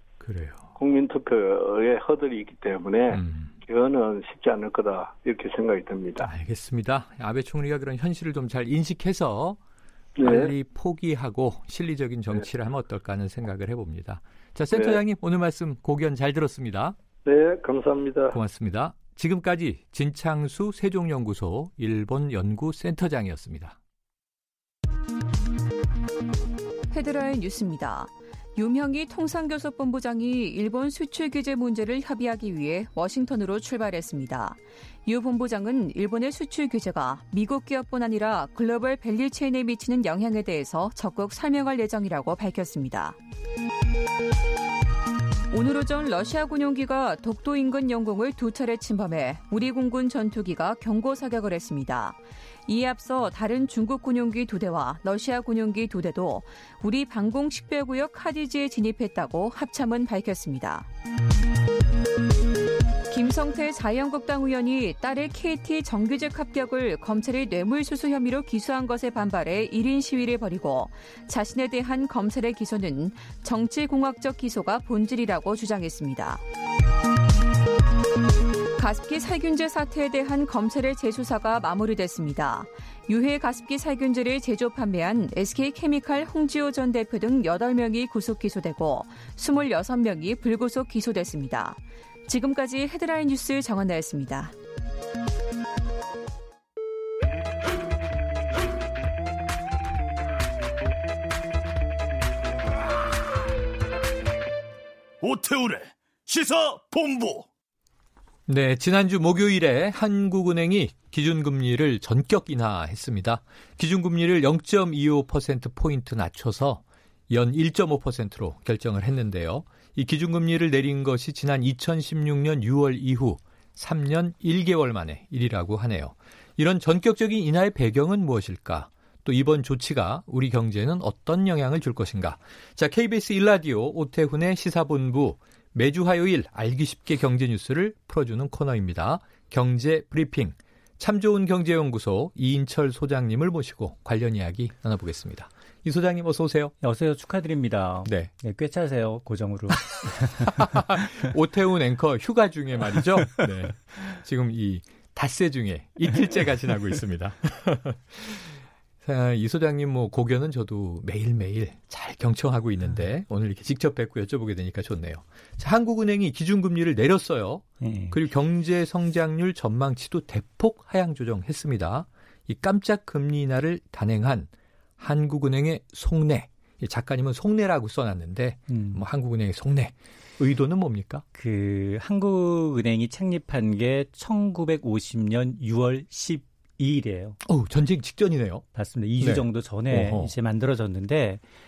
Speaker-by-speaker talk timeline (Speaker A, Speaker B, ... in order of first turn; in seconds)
Speaker A: 0.2-0.7, 3.1-3.5, 6.2-9.6, 10.2-16.9, 18.3-23.8, 108.5-146.7, 148.1-148.3, 149.9-181.2, 187.4-188.6, 189.2-190.3
Speaker B: 0.8-6.3, 10.2-10.5, 14.7-15.0, 17.2-18.4
Speaker C: 26.9-43.2, 45.5-60.9, 63.1-76.4, 78.8-94.5
Speaker D: 105.2-107.5
Speaker E: 146.8-150.6, 167.8-168.2, 178.7-179.0, 181.3-187.4, 188.7-191.4